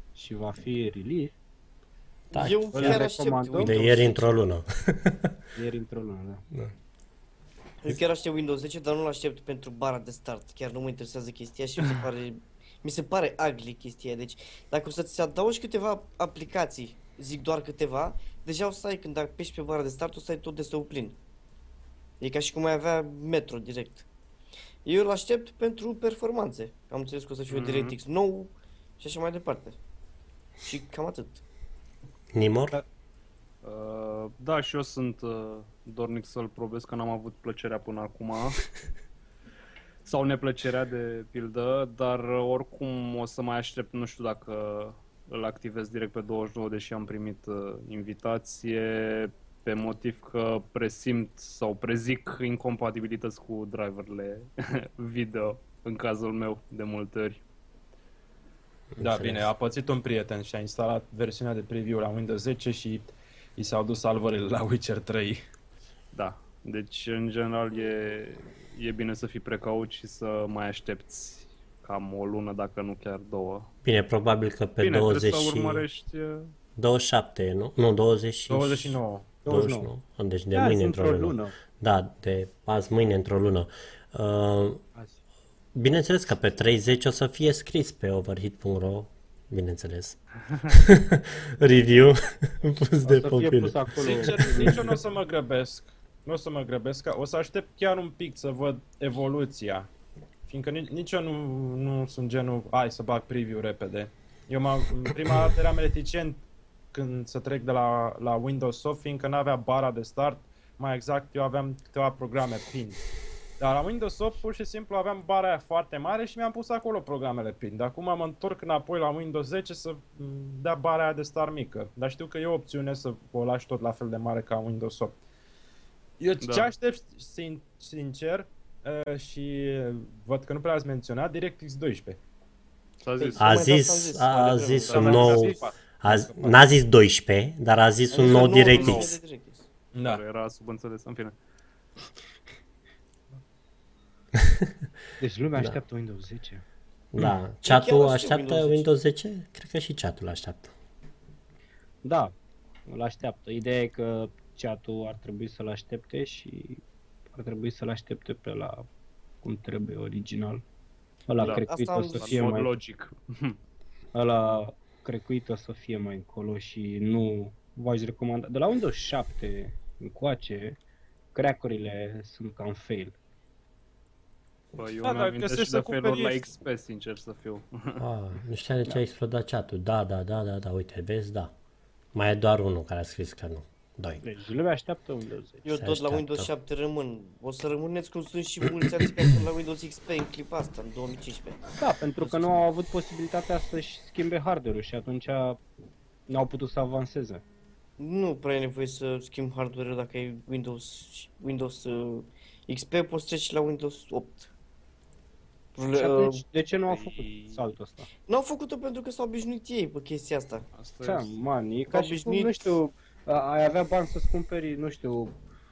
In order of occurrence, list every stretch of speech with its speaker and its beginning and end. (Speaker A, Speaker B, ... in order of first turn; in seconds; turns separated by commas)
Speaker A: 0.1-1.4, Speaker B: 2.3-4.4, Speaker C: 2.3-3.0, Speaker A: 2.7-3.7, Speaker C: 3.6-5.3, Speaker A: 5.5-6.4, Speaker B: 7.8-21.2, Speaker B: 22.2-24.1, Speaker B: 24.9-29.8, Speaker D: 27.5-27.9, Speaker B: 30.6-31.4, Speaker C: 32.3-32.8, Speaker D: 33.6-38.7, Speaker D: 40.0-57.4, Speaker C: 58.9-59.5, Speaker E: 59.0-65.4, Speaker D: 66.1-73.7, Speaker C: 73.8-75.9, Speaker D: 74.8-76.5, Speaker C: 76.8-84.8, Speaker E: 78.5-79.4, Speaker A: 79.4-79.9, Speaker A: 80.5-81.5, Speaker C: 85.7-94.9, Speaker A: 93.0-94.9, Speaker E: 94.0-99.9, Speaker E: 100.5-106.4, Speaker E: 106.9-113.0, Speaker E: 113.6-125.2, Speaker E: 126.2-132.2, Speaker D: 126.4-126.7, Speaker D: 133.0-133.5, Speaker B: 133.2-135.6, Speaker C: 133.4-139.1, Speaker D: 134.9-135.5, Speaker E: 134.9-136.7, Speaker B: 138.1-139.7, Speaker D: 138.2-139.2, Speaker E: 139.9-140.2, Speaker D: 140.0-141.4, Speaker C: 144.4-144.7, Speaker A: 145.2-146.6, Speaker C: 147.1-150.7, Speaker B: 147.6-148.9, Speaker A: 152.0-152.3, Speaker A: 152.9-156.8, Speaker A: 157.3-158.9, Speaker A: 159.4-160.6, Speaker A: 161.3-162.7, Speaker D: 161.4-163.6, Speaker B: 161.4-162.5, Speaker A: 164.1-170.8, Speaker A: 171.3-173.2, Speaker D: 174.8-178.1, Speaker E: 175.0-176.5, Speaker C: 178.0-181.5, Speaker C: 182.1-184.2, Speaker A: 184.2-185.7, Speaker B: 185.6-192.5, Speaker C: 185.7-186.5, Speaker A: 191.8-195.6, Speaker A: 196.3-197.4, Speaker B: 198.0-204.5, Speaker B: 205.7-206.4, Speaker A: 205.9-208.1, Speaker D: 206.9-207.7, Speaker B: 208.3-210.7, Speaker D: 210.7-211.4, Speaker A: 211.0-215.3, Speaker B: 211.9-212.7